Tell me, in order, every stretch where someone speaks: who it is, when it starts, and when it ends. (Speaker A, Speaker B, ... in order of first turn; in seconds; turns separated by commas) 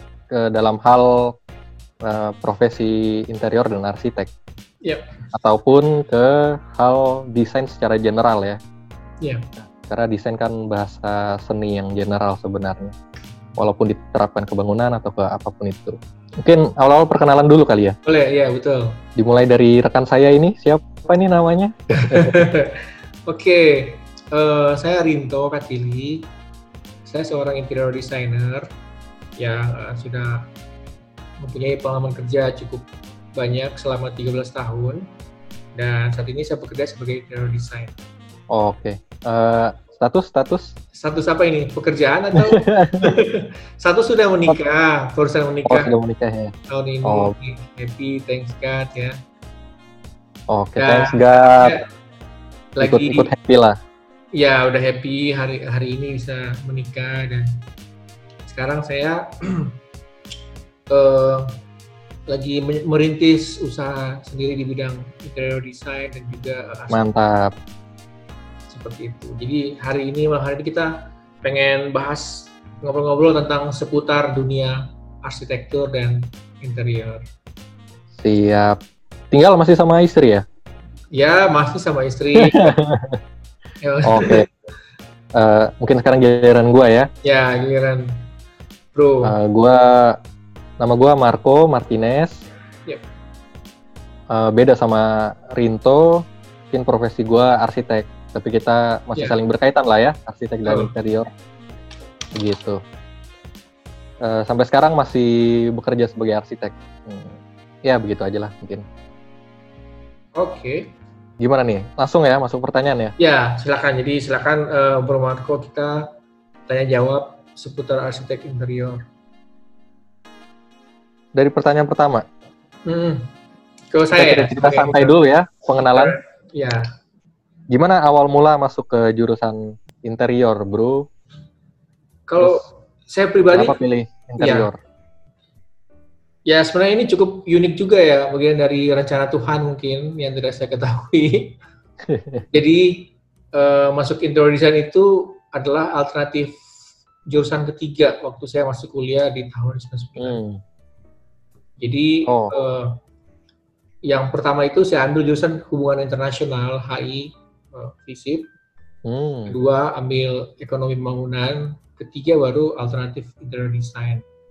Speaker A: 0.3-1.3, Speaker A: 2.0-4.3, Speaker A: 5.3-8.6, Speaker A: 9.6-12.9, Speaker A: 13.6-18.0, Speaker B: 18.1-19.0, Speaker A: 19.1-22.4, Speaker B: 21.9-26.2, Speaker B: 27.1-28.7, Speaker B: 29.4-30.5, Speaker B: 31.4-35.0, Speaker B: 35.8-37.9, Speaker A: 38.5-40.7, Speaker B: 41.0-45.9, Speaker A: 42.5-43.2, Speaker A: 45.7-46.5, Speaker B: 46.7-49.2, Speaker A: 47.0-47.3, Speaker A: 50.5-51.8, Speaker B: 50.8-51.8, Speaker B: 52.8-53.3, Speaker A: 52.8-53.8, Speaker B: 54.3-57.6, Speaker B: 58.5-59.7, Speaker B: 60.9-61.5, Speaker B: 62.3-67.1, Speaker A: 66.9-67.5, Speaker B: 68.7-77.2, Speaker A: 78.2-78.8, Speaker A: 79.3-80.5, Speaker B: 81.1-82.8, Speaker A: 82.4-83.2, Speaker B: 83.8-84.5, Speaker A: 84.1-84.5, Speaker A: 85.3-87.1, Speaker B: 87.2-88.1, Speaker B: 89.0-89.3, Speaker A: 89.2-90.2, Speaker A: 90.8-92.4, Speaker A: 94.3-101.3, Speaker B: 100.7-100.9, Speaker A: 102.3-102.8, Speaker A: 104.2-108.8, Speaker B: 110.4-110.9, Speaker A: 111.4-113.1, Speaker B: 113.2-116.0, Speaker B: 116.7-119.0, Speaker A: 121.4-122.2, Speaker B: 122.9-123.3, Speaker B: 123.9-125.2, Speaker A: 124.2-126.2, Speaker B: 125.8-126.9, Speaker A: 127.7-131.0, Speaker B: 132.3-133.7, Speaker A: 133.5-134.8, Speaker B: 134.4-134.7, Speaker B: 136.5-141.6, Speaker A: 142.1-142.4, Speaker B: 142.5-146.5, Speaker B: 147.3-150.4, Speaker A: 150.2-150.6, Speaker B: 151.8-152.9, Speaker A: 152.3-152.5, Speaker B: 154.1-158.4, Speaker A: 159.1-159.5, Speaker B: 159.5-164.2